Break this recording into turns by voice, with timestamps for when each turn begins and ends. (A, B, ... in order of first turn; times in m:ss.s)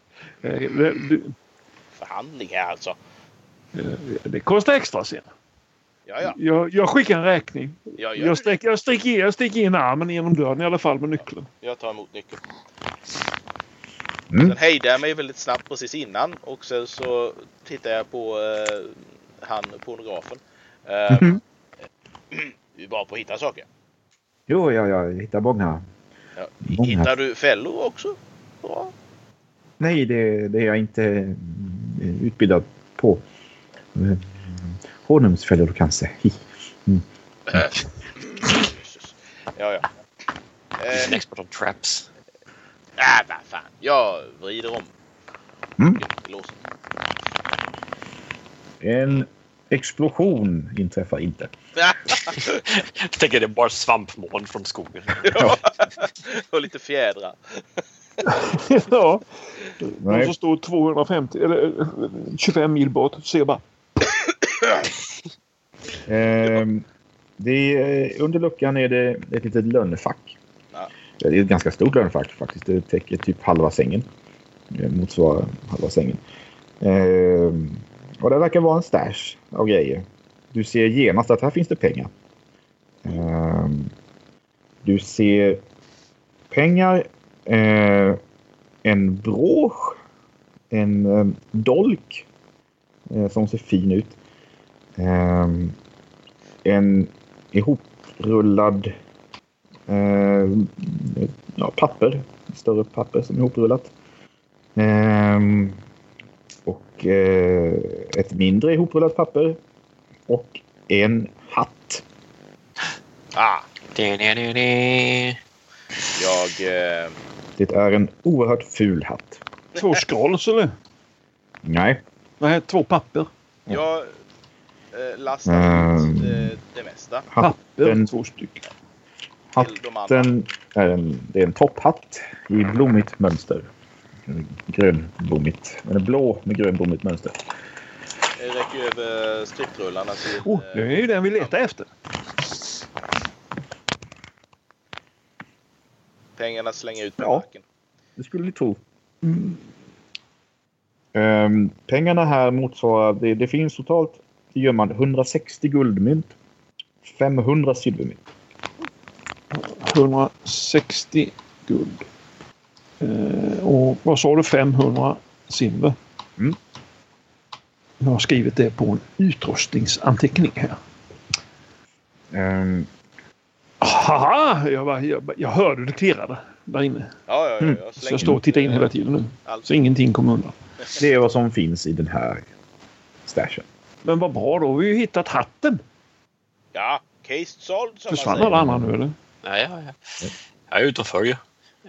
0:00.4-0:01.4 A
0:02.0-0:03.0 B
0:03.8-0:05.3 A
0:06.1-0:06.4 B
0:06.2-0:11.5 A
0:08.0-0:08.5 B
0:11.6-0:12.4 B
0:14.3-0:14.6 C
0:14.4-0:21.4 B
0:21.1-0:21.4 C
0:22.3-0:23.7 B
0:24.5-0:25.8 C
0:26.4-0:28.9 B
0:26.7-0:27.1 C
0:29.8-0:33.2 C
0:34.0-0:37.0 C
0:37.5-0:39.9 B
0:40.8-0:41.2 B
0:40.9-0:42.1 D
0:43.0-0:44.9 B
0:46.0-0:46.6 B
0:48.8-0:51.5 C
0:51.8-0:52.4 B
0:52.3-0:55.6 D
0:55.2-0:57.8 B
0:58.2-0:59.3 A
0:59.8-1:03.6 A
1:00.0-1:00.4 C
1:06.1-1:06.8 C
1:07.4-1:10.4 C
1:11.2-1:14.1 C
1:14.7-1:16.2 C
1:16.8-1:22.1 C
1:23.0-1:23.9 C
1:24.8-1:25.6 C
1:26.5-1:28.2 C
1:28.8-1:30.0 C
1:30.7-1:32.2 C
1:33.1-1:34.2 C
1:35.0-1:35.8 C
1:36.6-1:38.9 C
1:39.9-1:43.9 C
1:44.8-1:45.8 C
1:46.6-1:49.6 C
1:50.3-1:52.0 C
1:53.3-1:53.7 B
1:53.9-1:55.4 D
1:56.2-1:57.2 B
1:57.6-1:59.4 C
1:59.8-2:00.7 A
2:01.6-2:02.0 C
2:02.4-2:03.3 A
2:03.7-2:04.1 B
2:04.9-2:07.3 B
2:05.5-2:06.5 C
2:07.3-2:08.1 C
2:07.4-2:08.7 A
2:09.5-2:13.7 C
2:09.6-2:10.3 B
2:14.3-2:17.4 C
2:18.4-2:21.6 B
2:20.4-2:21.9 A
2:26.4-2:27.6 B
2:27.2-2:27.4 C
2:28.2-2:28.8 C
2:29.2-2:29.6 A
2:31.1-2:36.3 C
2:37.0-2:38.2 C
2:39.5-2:42.0 A
2:43.0-2:46.0 A
2:48.0-2:50.8 A
2:52.3-2:52.9 C
2:53.8-2:57.1 A
2:57.3-2:58.9 B
2:57.6-2:58.4 C
2:58.0-3:00.5 A
3:00.9-3:02.5 C
3:03.2-3:03.7 C
3:04.0-3:05.8 A
3:06.7-3:08.6 B
3:08.1-3:09.2 A
3:08.5-3:08.9 C
3:09.4-3:10.1 D
3:10.7-3:11.4 D